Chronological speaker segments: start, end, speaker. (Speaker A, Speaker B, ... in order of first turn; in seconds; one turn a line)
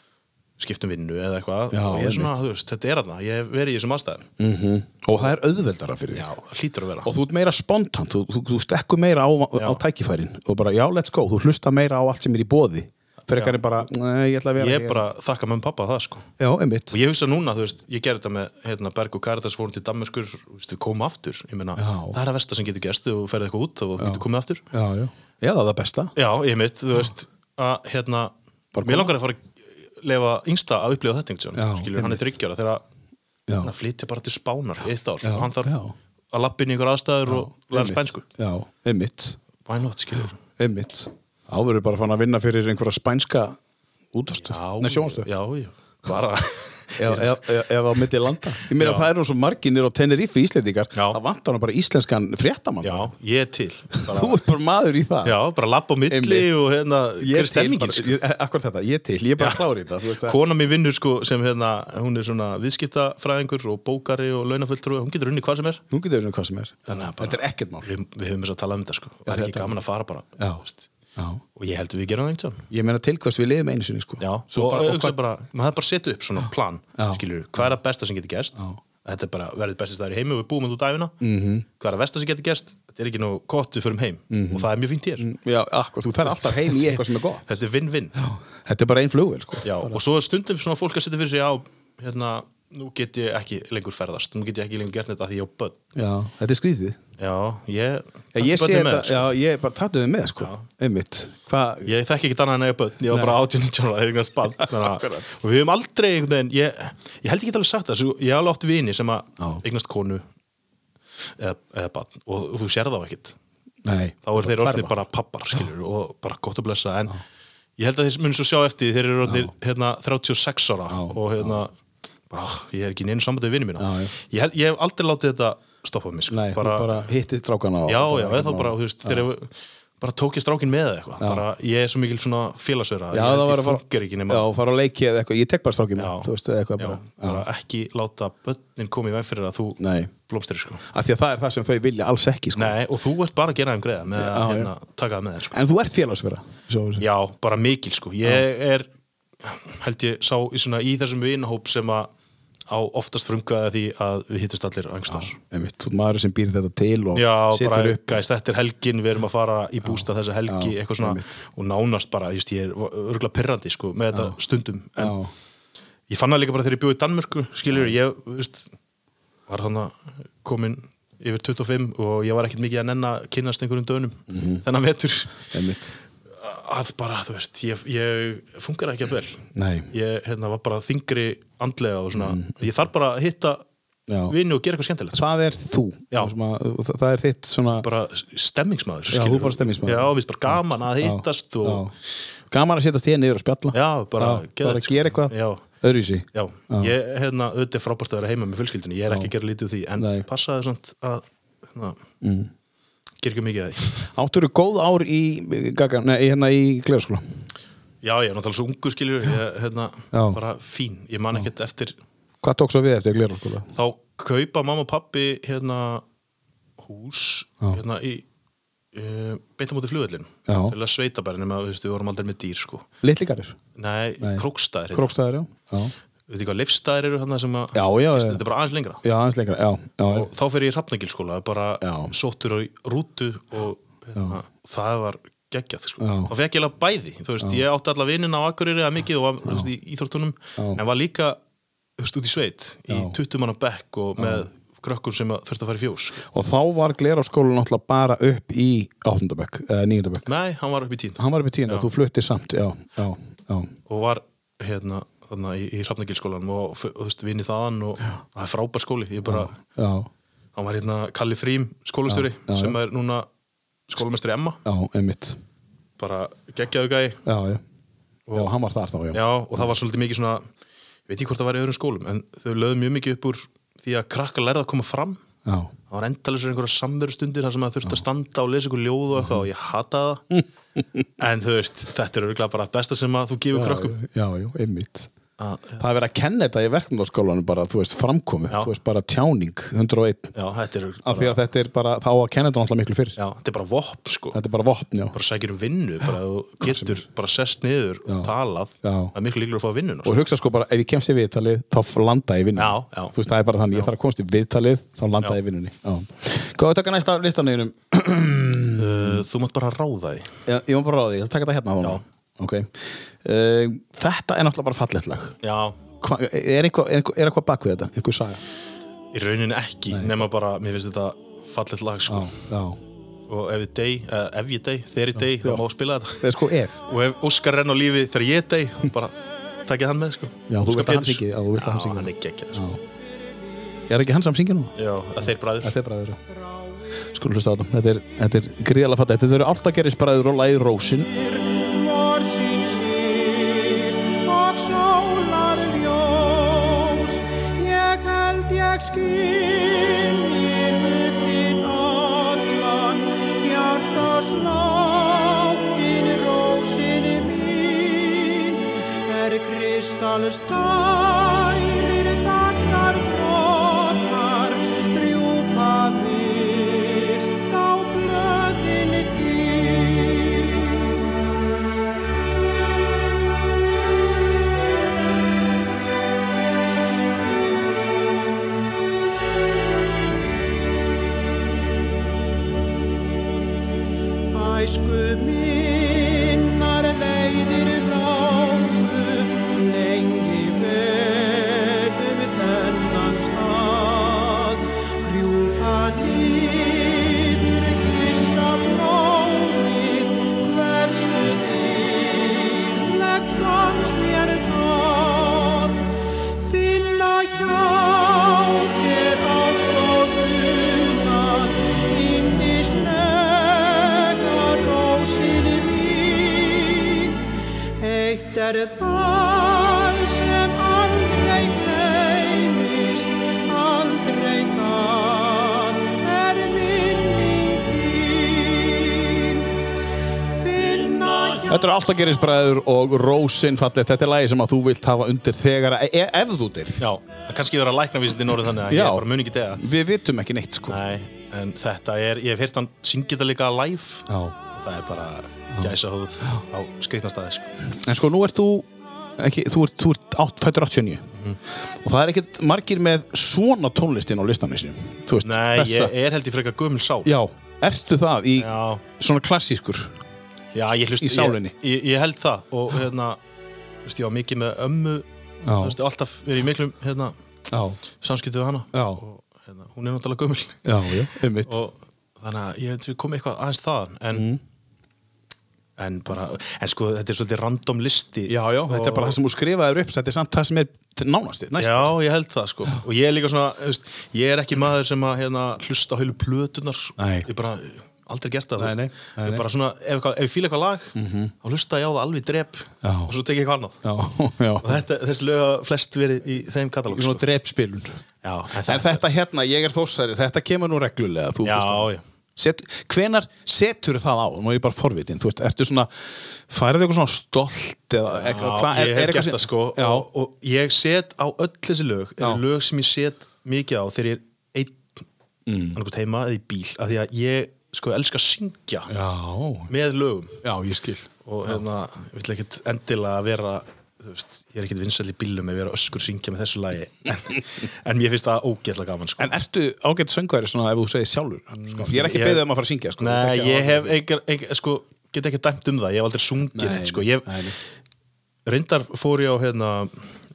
Speaker A: 0.6-4.3
Speaker B: 1.7-2.4
Speaker B: 4.4-6.3
Speaker A: 6.1-7.1
Speaker B: 7.0-15.0
Speaker A: 9.6-9.8
Speaker A: 13.3-13.8
Speaker A: 14.6-16.3
Speaker B: 16.4-17.0
Speaker A: 16.9-24.6
Speaker B: 21.8-22.2
Speaker B: 24.0-26.1
Speaker A: 26.1-29.4
Speaker B: 28.7-29.1
Speaker A: 30.0-32.8
Speaker B: 31.5-32.3
Speaker A: 33.6-35.8
Speaker B: 35.2-35.9
Speaker A: 36.3-38.2
Speaker B: 37.2-39.4
Speaker A: 39.6-40.4
Speaker B: 40.4-43.6
Speaker B: 44.1-45.3
Speaker A: 44.4-47.4
Speaker B: 47.0-53.1
Speaker A: 48.8-49.1
Speaker A: 50.9-51.2
Speaker A: 52.8-54.4
Speaker B: 54.0-55.4
Speaker A: 55.2-58.1
Speaker B: 56.1-56.5
Speaker B: 57.2-60.4
Speaker A: 59.4-59.6
Speaker A: 60.2-65.8
Speaker B: 65.9-67.9
Speaker A: 66.9-70.9
Speaker B: 69.3-69.8
Speaker B: 70.4-70.6
Speaker B: 71.2-71.4
Speaker A: 71.5-72.7
Speaker B: 72.7-75.2
Speaker A: 74.2-81.2
Speaker B: 77.0-77.7
Speaker B: 81.2-81.6
Speaker A: 81.8-85.3
Speaker B: 84.3-87.4
Speaker A: 86.3-86.9
Speaker A: 87.5-88.1
Speaker B: 88.2-90.0
Speaker A: 89.6-95.8
Speaker B: 95.9-97.0
Speaker A: 97.2-99.3
Speaker B: 98.3-101.9
Speaker A: 100.4-100.7
Speaker A: 101.8-110.2
Speaker B: 103.1-103.4
Speaker B: 104.6-105.3
Speaker A: 111.4-113.4
Speaker B: 113.8-115.0
Speaker A: 114.2-117.2
Speaker A: 117.8-121.7
Speaker B: 119.2-119.5
Speaker B: 120.9-121.6
Speaker A: 122.3-127.0
Speaker B: 123.8-124.1
Speaker B: 126.3-129.3
Speaker A: 127.9-134.5
Speaker B: 131.2-131.4
Speaker B: 133.1-137.4
Speaker A: 135.9-140.8
Speaker B: 139.8-140.1
Speaker B: 140.9-142.8
Speaker A: 142.5-145.6
Speaker B: 144.1-144.7
Speaker B: 145.5-147.1
Speaker A: 147.0-148.9
Speaker A: 149.4-152.1
Speaker A: 152.7-155.3
Speaker B: 155.1-158.2
Speaker A: 157.1-165.2
Speaker B: 159.8-161.3
Speaker B: 165.0-165.3
Speaker A: 166.1-168.7
Speaker A: 169.5-175.4
Speaker B: 174.3-174.6
Speaker B: 175.5-175.9
Speaker A: 176.4-183.6
Speaker B: 179.5-179.9
Speaker B: 182.1-182.7
Speaker B: 184.1-184.3
Speaker A: 184.3-185.2
Speaker B: 185.1-187.9
Speaker A: 187.7-191.8
Speaker B: 189.1-191.9
Speaker B: 192.5-196.9
Speaker A: 193.7-195.6
Speaker A: 196.3-202.0
Speaker B: 200.0-200.3
Speaker B: 202.2-202.5
Speaker A: 203.2-204.1
Speaker B: 204.1-207.2
Speaker A: 208.0-211.9
Speaker B: 210.1-210.4
Speaker B: 212.4-213.7
Speaker A: 213.7-216.0
Speaker A: 216.8-218.2
Speaker A: 218.9-222.8
Speaker B: 220.5-220.7
Speaker B: 223.0-223.6
Speaker A: 223.7-225.2
Speaker B: 224.2-225.9
Speaker A: 226.3-229.0
Speaker B: 227.7-228.4
Speaker B: 229.0-230.3
Speaker A: 230.0-241.4
Speaker B: 231.8-232.1
Speaker B: 236.0-236.3
Speaker B: 239.4-239.7
Speaker A: 242.0-246.2
Speaker B: 242.9-243.2
Speaker B: 244.2-244.5
Speaker B: 246.3-250.3
Speaker A: 250.2-251.9
Speaker B: 251.2-253.7
Speaker A: 253.9-259.6
Speaker B: 259.2-260.1
Speaker A: 260.5-263.3
Speaker B: 262.1-262.8
Speaker A: 263.9-264.6
Speaker B: 264.6-265.4
Speaker A: 266.0-267.2
Speaker B: 267.2-267.6
Speaker B: 268.3-269.7
Speaker A: 269.1-270.4
Speaker A: 271.1-275.2
Speaker B: 275.4-275.7
Speaker A: 275.9-280.2
Speaker B: 279.1-279.5
Speaker B: 280.3-281.0
Speaker A: 281.2-284.0
Speaker B: 283.5-285.1
Speaker A: 285.4-285.8
Speaker B: 285.8-290.3
Speaker A: 290.3-291.4
Speaker B: 291.0-293.2
Speaker A: 293.2-294.4
Speaker B: 294.3-295.1
Speaker A: 295.1-300.2
Speaker B: 296.6-297.0
Speaker B: 298.8-299.1
Speaker B: 300.0-309.2
Speaker A: 302.6-303.1
Speaker A: 308.7-310.3
Speaker B: 310.4-315.4
Speaker A: 315.4-315.8
Speaker B: 316.0-318.4
Speaker A: 319.1-322.4
Speaker B: 319.9-320.2
Speaker B: 322.1-322.8
Speaker A: 323.3-326.2
Speaker B: 325.2-325.6
Speaker B: 326.2-326.8
Speaker A: 326.9-332.6
Speaker B: 330.5-332.8
Speaker B: 333.9-336.2
Speaker A: 334.8-335.8
Speaker B: 337.1-341.1
Speaker C: 341.1-370.9
Speaker C: 384.3-405.8
Speaker C: 406.4-417.2
Speaker C: 417.8-429.4
Speaker C: 430.3-431.6
Speaker B: 431.5-436.8
Speaker A: 436.8-439.6
Speaker B: 438.7-440.8
Speaker A: 440.7-447.5
Speaker B: 444.1-444.4
Speaker B: 445.5-446.4
Speaker B: 447.6-451.0
Speaker A: 451.1-451.4
Speaker B: 451.6-455.9
Speaker A: 455.2-457.1
Speaker B: 457.0-459.9
Speaker A: 458.4-458.8
Speaker A: 460.5-463.2
Speaker B: 461.0-461.5
Speaker A: 463.8-467.1
Speaker B: 465.4-465.8
Speaker B: 467.5-467.8
Speaker A: 468.0-470.6
Speaker B: 468.7-469.0
Speaker B: 470.6-471.6
Speaker A: 471.4-474.3
Speaker B: 474.1-474.4
Speaker A: 475.8-479.2
Speaker B: 478.3-481.9
Speaker A: 481.6-493.8
Speaker B: 487.0-487.3
Speaker B: 488.6-489.4
Speaker B: 490.9-491.3
Speaker B: 492.8-493.1
Speaker B: 493.8-494.8
Speaker A: 494.6-497.2
Speaker B: 496.9-498.0
Speaker A: 498.2-499.0
Speaker B: 498.6-510.1
Speaker A: 501.4-502.0
Speaker A: 508.1-515.0
Speaker B: 515.5-515.8
Speaker A: 515.7-518.9
Speaker B: 518.9-519.7
Speaker A: 519.7-520.4
Speaker B: 520.4-521.6
Speaker A: 521.2-529.4
Speaker B: 529.2-534.0
Speaker A: 531.5-532.5
Speaker A: 533.0-537.5
Speaker B: 536.5-537.6
Speaker A: 538.5-540.1